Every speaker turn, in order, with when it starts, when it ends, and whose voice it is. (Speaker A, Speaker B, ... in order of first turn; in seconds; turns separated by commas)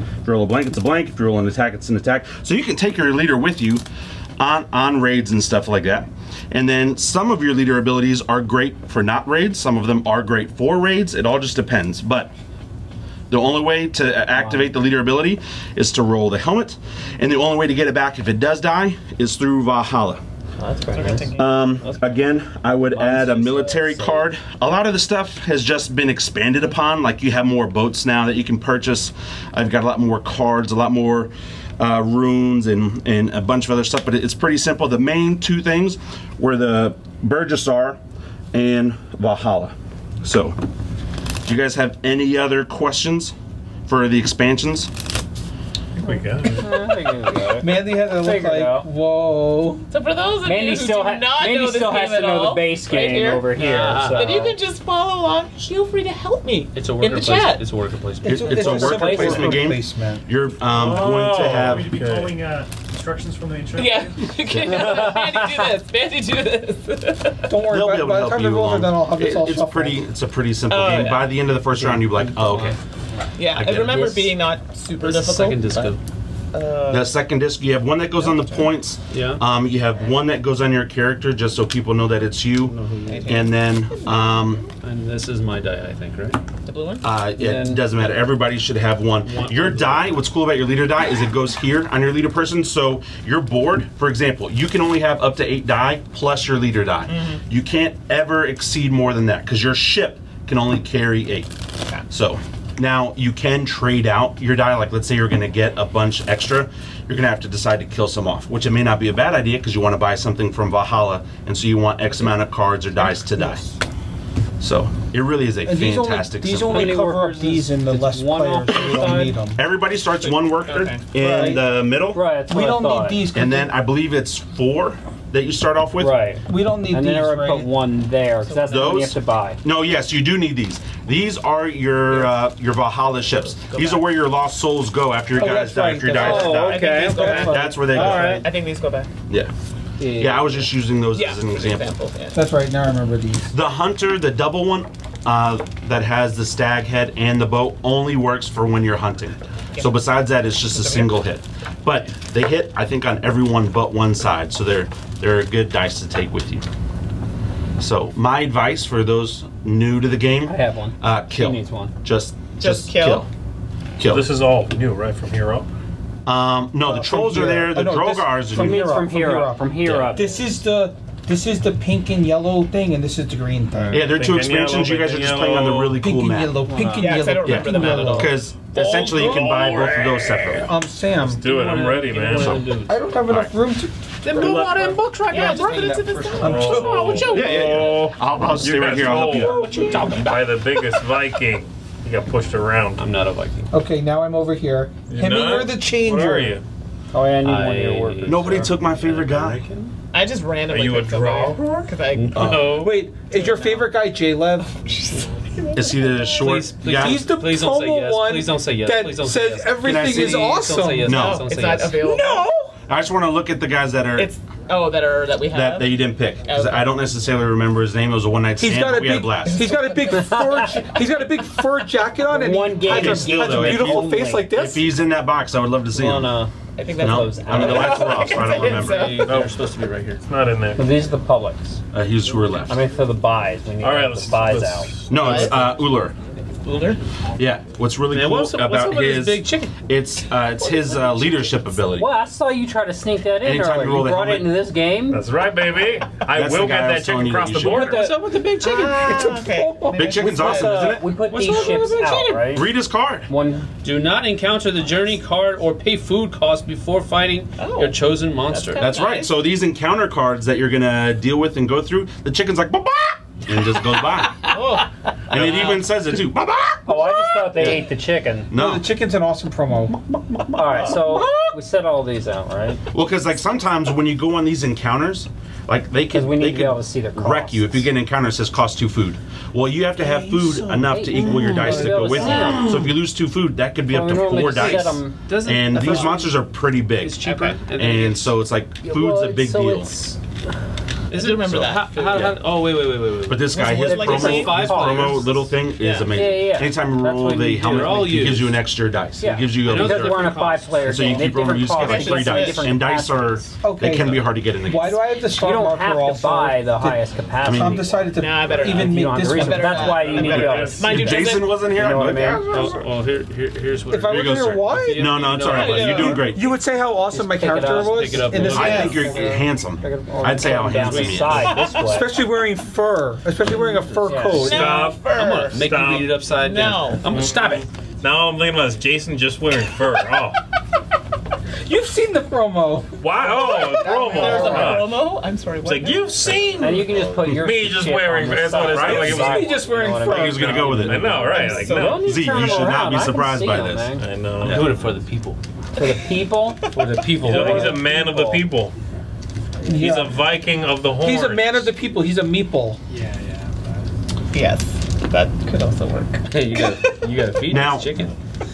Speaker A: 0.2-3.8, Speaker A: 4.4-12.3, Speaker A: 13.3-20.2, Speaker B: 14.4-14.6, Speaker C: 20.6-21.7, Speaker B: 20.9-21.3, Speaker A: 21.3-38.0, Speaker B: 22.9-24.2, Speaker A: 38.5-40.6, Speaker A: 41.5-43.4, Speaker A: 43.9-44.9, Speaker D: 46.0-46.9, Speaker E: 46.1-48.9, Speaker F: 47.4-49.9, Speaker C: 49.9-57.6, Speaker E: 50.5-54.5, Speaker B: 53.5-54.4, Speaker B: 56.7-59.0, Speaker A: 58.2-61.9, Speaker F: 58.3-60.2, Speaker E: 58.6-59.7, Speaker D: 60.7-62.4, Speaker G: 60.8-64.3, Speaker C: 63.8-67.5, Speaker A: 64.5-65.0, Speaker E: 64.7-65.7, Speaker F: 67.5-70.0, Speaker A: 67.7-72.8, Speaker C: 70.7-71.4, Speaker E: 72.2-72.8, Speaker C: 73.4-76.0, Speaker A: 73.5-74.2, Speaker E: 73.7-74.3, Speaker B: 75.0-76.0, Speaker C: 76.5-77.1, Speaker A: 76.9-82.8, Speaker C: 78.2-78.7, Speaker B: 79.1-79.4, Speaker B: 82.7-83.5, Speaker C: 83.1-84.6, Speaker A: 83.3-84.6, Speaker B: 84.8-86.4, Speaker C: 86.7-87.1, Speaker A: 87.0-101.5, Speaker E: 87.4-87.8, Speaker B: 89.2-90.2, Speaker C: 97.1-97.4, Speaker A: 102.1-113.6, Speaker A: 114.6-117.0, Speaker F: 115.7-119.6, Speaker E: 116.6-119.3, Speaker A: 119.5-122.2, Speaker C: 120.2-121.6, Speaker F: 121.2-121.6, Speaker E: 122.1-123.3, Speaker F: 122.5-123.7, Speaker A: 123.3-126.2, Speaker E: 126.0-129.6, Speaker F: 126.5-127.7, Speaker C: 128.4-129.1, Speaker A: 128.7-138.5, Speaker C: 133.6-134.1, Speaker F: 135.4-138.4, Speaker E: 136.1-138.4, Speaker C: 136.2-139.1, Speaker E: 140.0-140.7, Speaker A: 140.1-141.9, Speaker C: 141.1-142.4, Speaker F: 142.3-143.5, Speaker A: 143.5-156.7, Speaker C: 150.7-151.1, Speaker A: 157.8-163.3, Speaker E: 160.5-161.9, Speaker C: 162.6-163.3, Speaker A: 164.0-164.3, Speaker D: 164.0-165.7, Speaker A: 166.3-169.1, Speaker F: 166.8-174.0, Speaker E: 168.5-170.4, Speaker D: 173.9-176.0, Speaker A: 173.9-176.6, Speaker F: 176.0-178.3, Speaker E: 176.7-177.3, Speaker C: 176.9-178.4, Speaker A: 177.4-180.7, Speaker B: 177.7-178.1, Speaker B: 178.7-180.6, Speaker F: 180.5-181.4, Speaker D: 181.2-182.7, Speaker B: 181.4-183.0, Speaker A: 182.3-182.7, Speaker F: 182.8-187.6, Speaker A: 183.3-183.5, Speaker B: 184.2-185.9, Speaker C: 185.3-187.2, Speaker D: 186.4-193.0, Speaker B: 186.8-187.9, Speaker A: 187.3-189.7, Speaker F: 188.9-190.3, Speaker B: 189.4-190.4, Speaker B: 193.0-193.7, Speaker F: 193.7-196.6, Speaker D: 195.1-196.6, Speaker E: 197.1-198.7, Speaker B: 197.4-199.9, Speaker A: 198.2-199.6, Speaker C: 200.1-203.9, Speaker D: 200.7-201.9, Speaker B: 202.1-203.1, Speaker A: 202.3-202.9, Speaker F: 202.4-204.8, Speaker C: 204.8-206.6, Speaker A: 205.7-207.3, Speaker B: 206.4-212.0, Speaker F: 206.9-211.2, Speaker A: 209.8-211.5, Speaker C: 211.1-212.5, Speaker F: 212.0-212.8, Speaker A: 212.9-214.3, Speaker C: 214.2-217.0, Speaker A: 215.5-219.7, Speaker F: 218.6-224.9, Speaker C: 219.5-220.4, Speaker E: 220.2-220.7, Speaker E: 222.2-224.5, Speaker A: 222.8-226.4, Speaker E: 225.9-228.3, Speaker C: 226.8-229.5, Speaker A: 227.0-229.2, Speaker B: 227.7-230.2, Speaker D: 229.2-229.6, Speaker D: 230.2-230.8, Speaker E: 230.8-231.8, Speaker A: 231.9-232.8, Speaker E: 232.7-235.3, Speaker D: 233.8-235.5, Speaker A: 235.1-236.2, Speaker B: 235.1-235.7, Speaker C: 236.6-237.0, Speaker A: 237.4-242.1, Speaker B: 238.1-239.8, Speaker E: 241.9-245.2, Speaker A: 243.4-244.5, Speaker D: 245.1-248.2, Speaker A: 246.3-248.0, Speaker E: 247.6-248.2, Speaker B: 247.8-249.2, Speaker C: 248.6-251.0, Speaker F: 248.6-252.4, Speaker A: 249.9-253.3, Speaker E: 250.2-252.7, Speaker B: 251.6-252.2, Speaker E: 253.3-253.7, Speaker B: 253.8-259.0, Speaker C: 257.6-259.4, Speaker A: 258.8-264.5, Speaker C: 264.4-265.9, Speaker A: 265.3-267.8, Speaker E: 266.9-268.5, Speaker A: 268.5-268.9, Speaker F: 268.5-270.0, Speaker A: 270.3-271.3, Speaker E: 270.6-272.8, Speaker F: 270.9-271.3, Speaker C: 271.2-271.6, Speaker A: 272.9-289.9, Speaker E: 276.1-277.9, Speaker B: 280.2-283.0, Speaker E: 280.8-282.8, Speaker E: 283.9-285.2, Speaker B: 284.1-286.4, Speaker B: 287.0-288.3, Speaker C: 287.2-287.6, Speaker E: 288.8-290.2, Speaker B: 291.1-295.5, Speaker C: 291.1-292.4, Speaker A: 292.1-292.4, Speaker A: 293.2-305.0, Speaker C: 293.7-294.7, Speaker E: 293.7-295.3, Speaker C: 295.8-296.1, Speaker E: 296.1-298.2, Speaker B: 297.6-298.6, Speaker E: 299.2-303.6, Speaker B: 299.6-301.3, Speaker C: 301.7-302.7, Speaker F: 303.6-310.9, Speaker E: 305.4-312.5, Speaker A: 307.4-308.0, Speaker C: 308.1-311.6, Speaker D: 310.1-311.1, Speaker A: 310.5-312.7, Speaker F: 312.5-312.9, Speaker B: 312.5-316.2, Speaker F: 313.9-315.1, Speaker A: 314.1-316.5, Speaker C: 315.4-316.2, Speaker F: 316.1-319.2, Speaker E: 317.1-322.1, Speaker B: 317.6-319.1, Speaker A: 318.5-321.6, Speaker C: 318.7-319.0, Speaker B: 320.6-321.5, Speaker C: 321.5-322.0, Speaker F: 321.8-325.0, Speaker B: 323.5-323.8, Speaker E: 324.0-324.6, Speaker C: 324.4-325.6, Speaker D: 324.5-326.2, Speaker B: 325.1-327.7, Speaker C: 326.3-327.1, Speaker D: 327.1-330.4, Speaker F: 331.7-334.8, Speaker D: 333.0-335.0, Speaker C: 333.3-336.5, Speaker E: 334.3-334.8, Speaker D: 335.6-339.7, Speaker E: 336.6-344.0, Speaker B: 336.7-337.2, Speaker F: 338.7-340.9, Speaker A: 339.9-341.2, Speaker D: 340.8-342.3, Speaker B: 341.1-341.4, Speaker C: 341.3-342.8, Speaker A: 342.0-344.7, Speaker D: 344.0-344.7, Speaker B: 344.4-345.4, Speaker E: 345.8-346.7, Speaker B: 346.7-347.9, Speaker D: 347.2-348.8, Speaker E: 347.3-348.4, Speaker F: 349.6-350.2, Speaker D: 349.6-351.7, Speaker F: 351.0-352.8, Speaker G: 352.9-353.7, Speaker C: 354.3-357.1, Speaker B: 356.3-358.1, Speaker A: 357.5-357.9